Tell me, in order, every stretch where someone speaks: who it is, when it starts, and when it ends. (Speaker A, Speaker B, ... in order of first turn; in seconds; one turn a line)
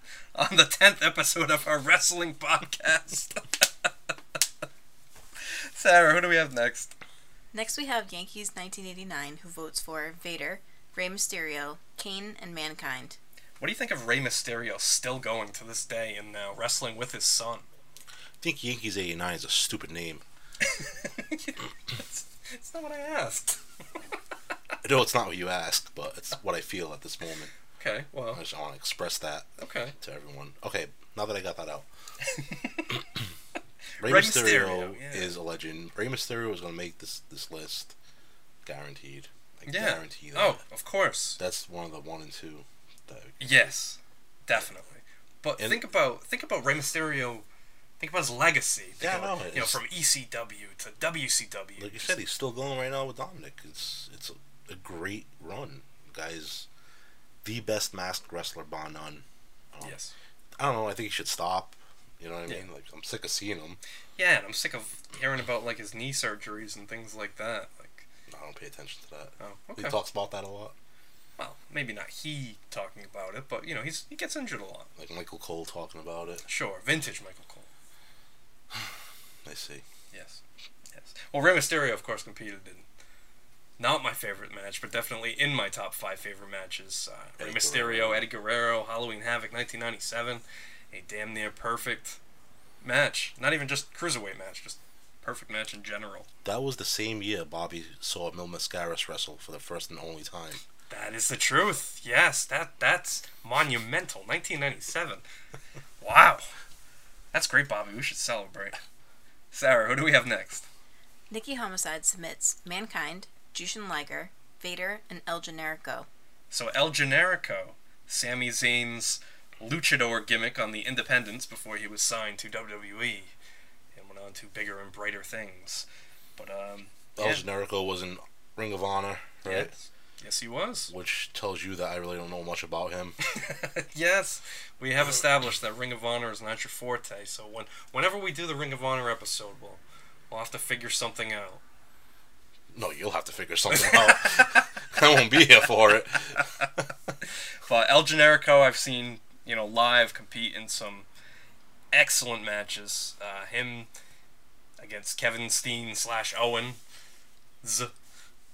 Speaker A: 0.3-3.9
Speaker A: 5.4-6.9
Speaker B: 7.5-13.2
Speaker A: 13.6-17.7
Speaker C: 18.4-20.2
Speaker A: 20.6-23.6
Speaker C: 24.8-27.5
Speaker A: 27.8-28.4
Speaker C: 28.3-31.9
Speaker A: 29.6-30.0
Speaker A: 32.2-32.9
Speaker A: 34.0-35.4
Speaker C: 34.0-37.9
Speaker C: 38.6-40.6
Speaker A: 39.7-41.4
Speaker C: 41.4-43.7
Speaker A: 43.4-47.5
Speaker A: 48.0-52.2
Speaker C: 49.0-49.8
Speaker C: 51.8-56.7
Speaker C: 57.4-60.0
Speaker A: 59.8-60.1
Speaker C: 60.6-63.8
Speaker A: 64.2-68.1
Speaker C: 68.3-70.8
Speaker A: 69.4-70.0
Speaker A: 71.4-74.9
Speaker C: 75.0-76.5
Speaker A: 76.5-77.7
Speaker C: 79.5-79.8
Speaker A: 80.1-80.4
Speaker A: 80.9-82.8
Speaker A: 83.8-92.2
Speaker C: 87.4-88.3
Speaker A: 92.8-96.3
Speaker C: 96.5-100.6
Speaker A: 100.9-105.2
Speaker A: 106.0-106.5
Speaker A: 107.3-108.8
Speaker A: 109.5-110.7
Speaker B: 111.3-116.1
Speaker A: 116.5-123.3
Speaker A: 123.9-125.9
Speaker A: 126.4-127.5
Speaker C: 127.2-129.7
Speaker A: 129.4-130.9
Speaker C: 130.9-133.2
Speaker A: 133.2-141.6
Speaker C: 142.7-147.1
Speaker A: 143.7-144.4
Speaker A: 147.7-151.1
Speaker A: 151.9-153.9
Speaker A: 154.8-156.8
Speaker A: 157.6-157.9